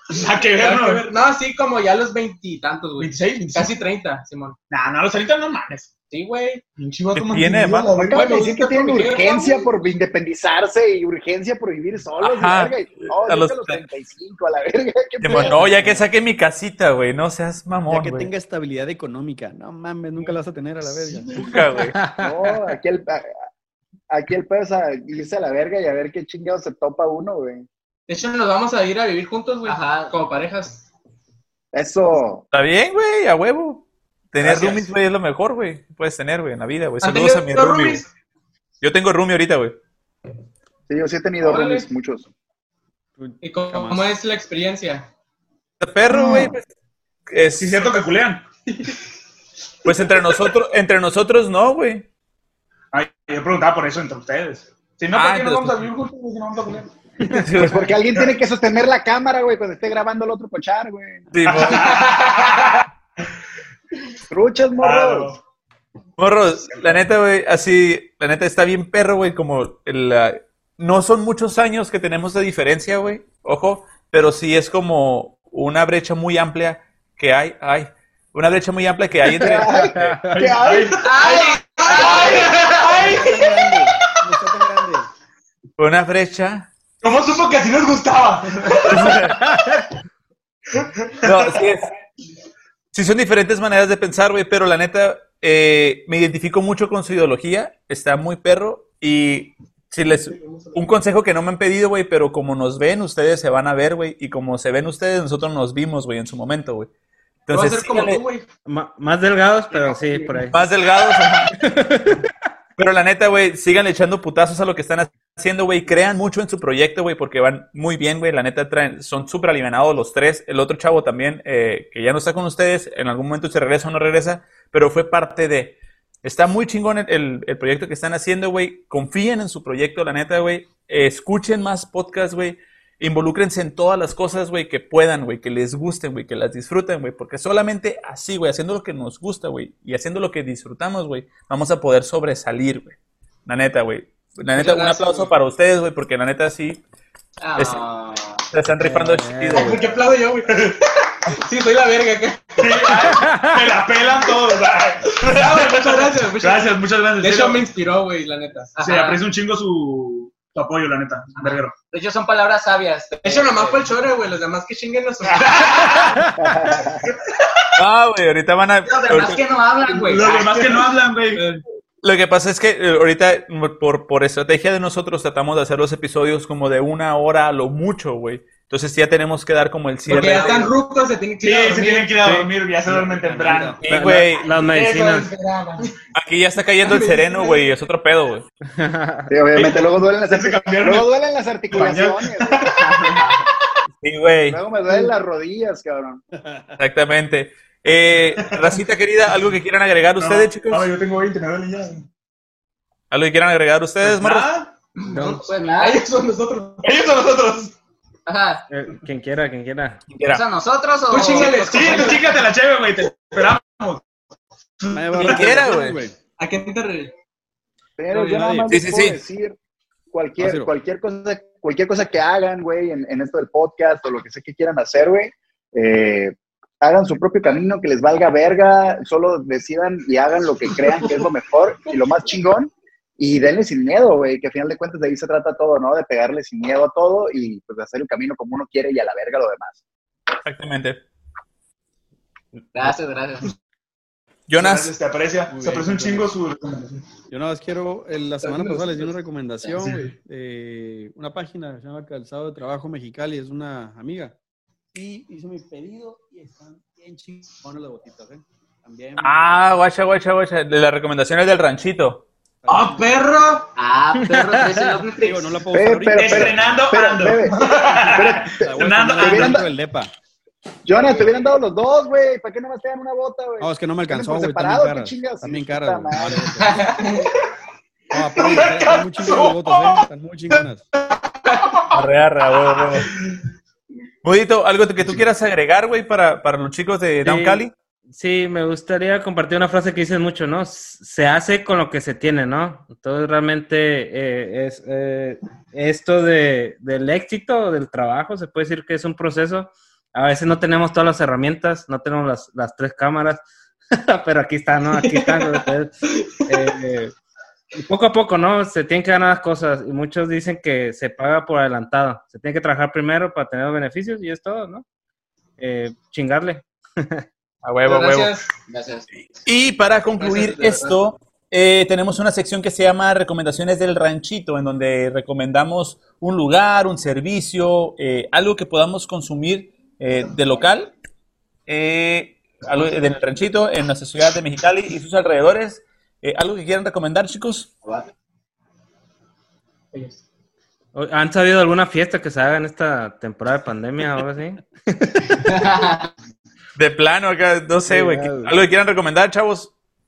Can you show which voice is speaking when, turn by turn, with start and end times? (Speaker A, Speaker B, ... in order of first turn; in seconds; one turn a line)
Speaker A: 0.1-1.0
Speaker B: 0.6-4.6
Speaker A: 3.0-3.7
Speaker A: 4.7-5.9
Speaker B: 6.1-6.6
Speaker A: 6.8-8.5
Speaker C: 7.1-8.0
Speaker D: 8.0-15.6
Speaker B: 8.1-9.7
Speaker C: 12.2-13.8
Speaker C: 15.2-18.3
Speaker E: 17.9-21.5
Speaker B: 21.1-21.4
Speaker C: 21.3-21.9
Speaker F: 21.9-22.5
Speaker D: 22.2-23.3
Speaker D: 24.1-27.7
Speaker B: 28.1-30.9
Speaker G: 29.7-30.1
Speaker D: 31.7-32.4
Speaker C: 32.5-38.0
Speaker D: 34.4-34.8
Speaker B: 37.0-38.1
Speaker C: 38.8-39.8
Speaker D: 40.9-42.3
Speaker B: 41.4-41.9
Speaker E: 43.2-44.1
Speaker B: 43.4-45.1
Speaker C: 45.8-46.6
Speaker C: 47.3-48.0
Speaker A: 47.5-48.5
Speaker C: 49.9-52.0
Speaker A: 52.9-57.0
Speaker C: 55.1-55.8
Speaker C: 57.3-58.0
Speaker D: 57.5-61.3
Speaker C: 61.3-62.2
Speaker A: 61.5-62.9
Speaker D: 64.3-65.3
Speaker A: 64.8-65.4
Speaker C: 66.2-79.9
Speaker F: 79.3-80.2
Speaker D: 79.4-81.1
Speaker A: 80.3-83.5
Speaker B: 81.0-83.2
Speaker G: 81.8-82.6
Speaker E: 83.1-85.1
Speaker C: 85.8-86.7
Speaker A: 87.0-89.3
Speaker C: 88.9-89.5
Speaker A: 90.8-91.7
Speaker C: 91.2-91.9
Speaker C: 92.9-106.9
Speaker B: 100.3-100.8
Speaker C: 107.5-108.2
Speaker B: 107.5-108.5
Speaker F: 108.7-110.6
Speaker B: 109.8-110.4
Speaker C: 110.5-111.5
Speaker F: 111.6-112.2
Speaker C: 112.8-146.8
Speaker B: 144.6-145.3
Speaker G: 147.4-148.5
Speaker C: 147.6-147.8
Speaker C: 148.5-149.9
Speaker F: 148.8-149.9
Speaker B: 149.5-153.3
Speaker A: 150.5-150.8
Speaker A: 152.6-157.7
Speaker F: 153.3-153.6
Speaker B: 155.2-158.8
Speaker G: 158.8-159.2
Speaker A: 158.8-161.8
Speaker G: 161.9-163.9
Speaker B: 163.2-166.2
Speaker A: 165.4-166.2
Speaker D: 166.4-167.1
Speaker C: 167.8-169.4
Speaker G: 168.8-170.9
Speaker A: 169.9-171.5
Speaker B: 171.4-171.6
Speaker C: 172.0-180.7
Speaker A: 180.1-180.8
Speaker B: 180.1-182.1
Speaker A: 181.4-183.9
Speaker E: 182.9-183.8
Speaker C: 183.8-184.6
Speaker F: 183.8-185.3
Speaker A: 184.7-185.2
Speaker B: 184.8-185.9
Speaker C: 186.2-188.5
Speaker B: 186.8-187.7
Speaker F: 188.7-189.3
Speaker D: 189.3-192.7
Speaker A: 189.5-191.1
Speaker A: 191.7-193.4
Speaker G: 192.8-193.3
Speaker C: 194.0-194.6
Speaker D: 194.5-196.2
Speaker E: 196.4-196.8
Speaker C: 196.8-200.9
Speaker A: 198.4-198.7
Speaker A: 200.2-202.1
Speaker C: 203.1-204.5
Speaker A: 204.0-204.7
Speaker G: 205.0-206.0
Speaker F: 205.1-205.4
Speaker A: 205.8-207.7
Speaker B: 205.8-206.5
Speaker G: 208.3-208.6
Speaker F: 208.7-210.0
Speaker C: 210.1-210.4
Speaker G: 210.3-212.3
Speaker A: 211.1-214.1
Speaker B: 211.1-212.3
Speaker A: 214.8-215.5
Speaker E: 214.9-216.2
Speaker C: 215.2-216.0
Speaker B: 216.4-217.1
Speaker D: 218.0-219.6
Speaker E: 218.1-218.9
Speaker C: 218.7-219.2
Speaker D: 220.1-239.8
Speaker E: 220.4-220.7
Speaker C: 240.4-241.0
Speaker G: 242.7-243.5
Speaker C: 244.5-244.9
Speaker A: 244.6-247.1
Speaker E: 245.5-246.3
Speaker E: 247.3-254.3
Speaker G: 248.4-248.9
Speaker A: 249.8-250.1
Speaker E: 254.9-259.6
Speaker C: 259.2-262.2
Speaker E: 262.6-263.2
Speaker A: 262.7-263.0
Speaker B: 262.8-263.7
Speaker G: 263.8-265.6
Speaker F: 264.1-265.0
Speaker E: 265.1-266.9
Speaker D: 265.7-269.7
Speaker A: 266.1-269.7
Speaker E: 268.5-270.1
Speaker D: 270.9-276.6
Speaker E: 273.6-277.0
Speaker G: 276.6-277.3
Speaker E: 278.1-280.9
Speaker A: 278.3-280.6
Speaker A: 281.5-282.0
Speaker C: 281.9-283.1
Speaker A: 282.9-283.4
Speaker C: 284.2-287.7
Speaker F: 287.2-307.1
Speaker B: 304.9-305.7
Speaker F: 307.8-314.9
Speaker F: 315.6-317.2
Speaker C: 317.6-318.4
Speaker B: 317.9-318.5
Speaker G: 318.7-319.1
Speaker C: 319.4-330.9
Speaker B: 320.2-321.0
Speaker C: 331.7-337.7
Speaker F: 340.9-345.8
Speaker G: 345.4-346.1
Speaker C: 346.8-349.7
Speaker F: 347.9-348.6